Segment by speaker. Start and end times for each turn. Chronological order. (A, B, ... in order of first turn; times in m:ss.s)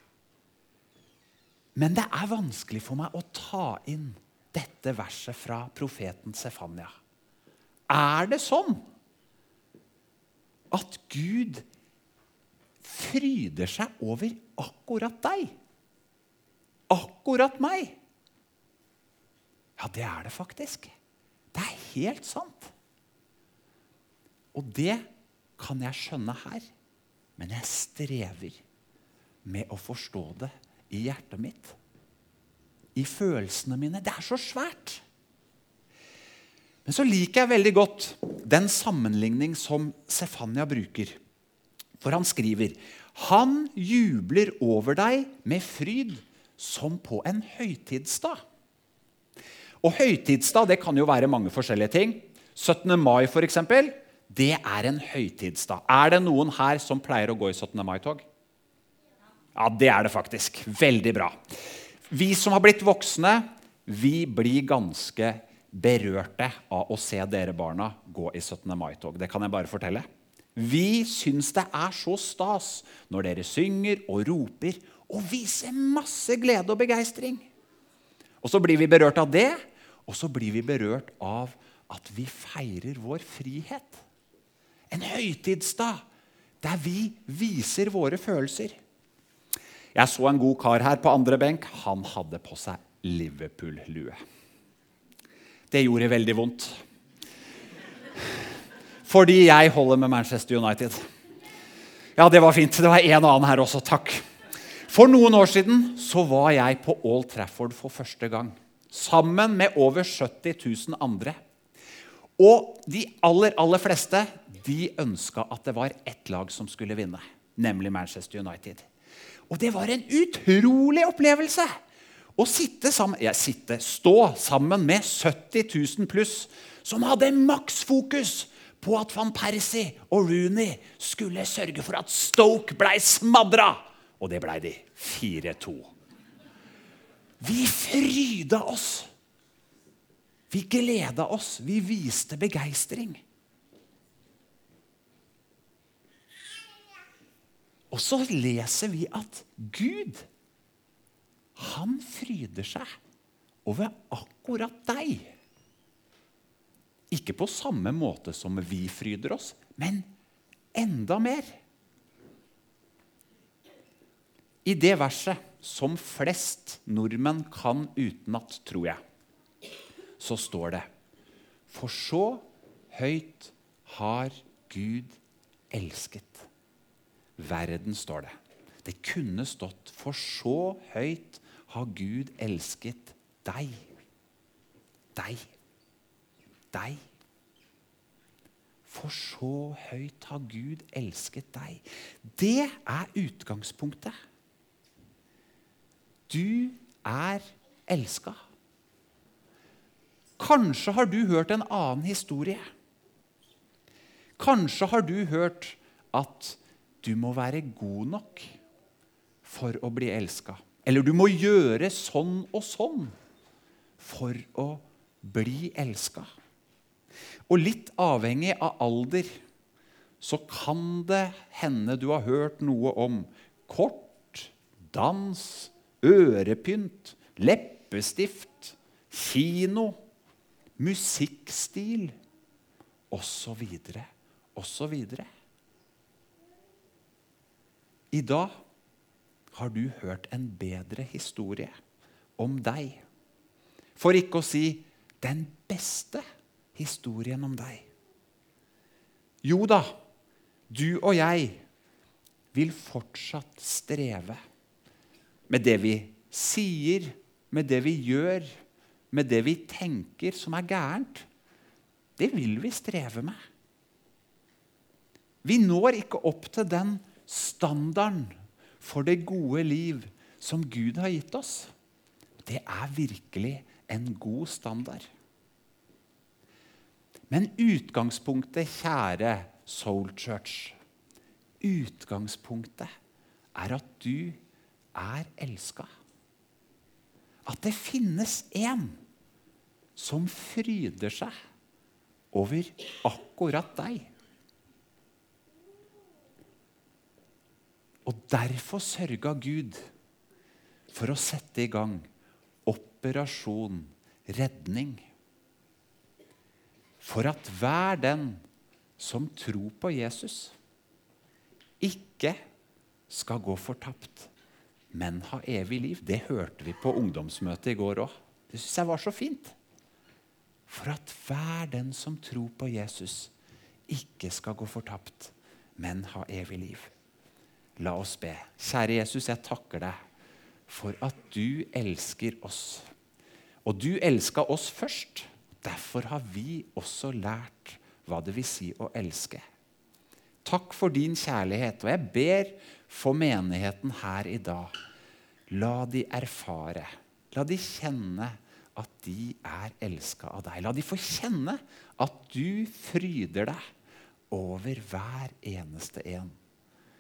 0:01.8-0:07.0 A
0:07.9-0:08.8 A
0:10.7-0:11.6 A
0:12.8-0:15.5 A
0:16.9-0:18.0 A
0:19.8-0:20.9 A
0:21.5-0:22.7 A
0:24.5-0:25.1 A
0:25.6-0:26.7 A
0:27.4-0:28.6 A
0:29.4-0:31.8 A
0:33.0-0:35.0 A
0:36.8-0:41.2 A
0:42.0-0:48.4 A
0:49.8-0:58.2 A
0:59.6-1:01.4 A
1:02.1-1:17.5 A
1:18.4-1:24.0 A
1:24.9-1:26.1 A
1:26.6-1:28.8 A
1:30.0-1:34.2 A
1:35.7-1:36.8 A
1:39.1-1:41.0 A
1:42.2-1:44.2 A
1:44.9-1:51.4 A
1:52.4-1:58.9 A
1:59.5-2:01.7 A
2:02.4-2:15.9 A
2:17.4-2:19.1 A
2:20.5-2:23.2 A
2:27.9-2:30.3 A
2:31.6-2:32.9 A
2:33.6-2:35.3 A
2:37.1-2:40.1 A
2:40.7-2:41.6 A
2:44.6-2:49.0 A
2:50.2-2:50.9 A
2:51.7-2:55.2 A
2:55.7-2:56.5 A
2:57.4-3:03.9 A
3:05.2-3:05.5 A
3:06.7-3:07.0 A
3:08.9-3:14.2 A
3:16.3-3:18.4 A
3:20.4-3:22.6 A
3:24.4-3:28.6 A
3:29.4-3:33.2 A
3:34.0-3:36.3 A
3:37.5-3:39.4 A
3:40.2-3:50.0 A
3:50.8-3:52.2 A
3:53.1-3:55.3 A
3:58.1-3:58.6 A
3:59.5-4:01.7 A
4:02.4-4:03.0 A
4:04.0-4:06.2 A
4:06.8-4:07.9 A
4:09.4-4:09.9 A
4:10.7-4:11.6 A
4:12.5-4:14.4 A
4:15.5-4:18.5 A
4:19.1-4:21.3 A
4:22.2-4:23.4 A
4:25.4-4:31.7 A
4:32.4-4:35.1 A
4:37.3-4:40.8 A
4:41.6-4:42.9 A
4:43.6-4:44.4 A
4:45.0-4:45.9 A
4:47.5-4:49.0 A
4:50.0-4:51.3 A
4:52.3-4:54.1 A
4:58.1-4:59.9 A
5:00.9-5:02.1 A
5:02.7-5:05.1 A
5:07.0-5:08.4 A
5:09.0-5:10.5 A
5:11.8-5:12.4 A
5:13.1-5:14.3 A
5:14.9-5:19.6 A
5:20.7-5:23.3 A
5:23.9-5:26.9 A
5:27.8-5:30.0 A
5:30.7-5:32.9 A
5:33.6-5:39.4 A
5:40.4-5:44.8 A
5:45.5-5:53.6 A
5:54.3-5:56.4 A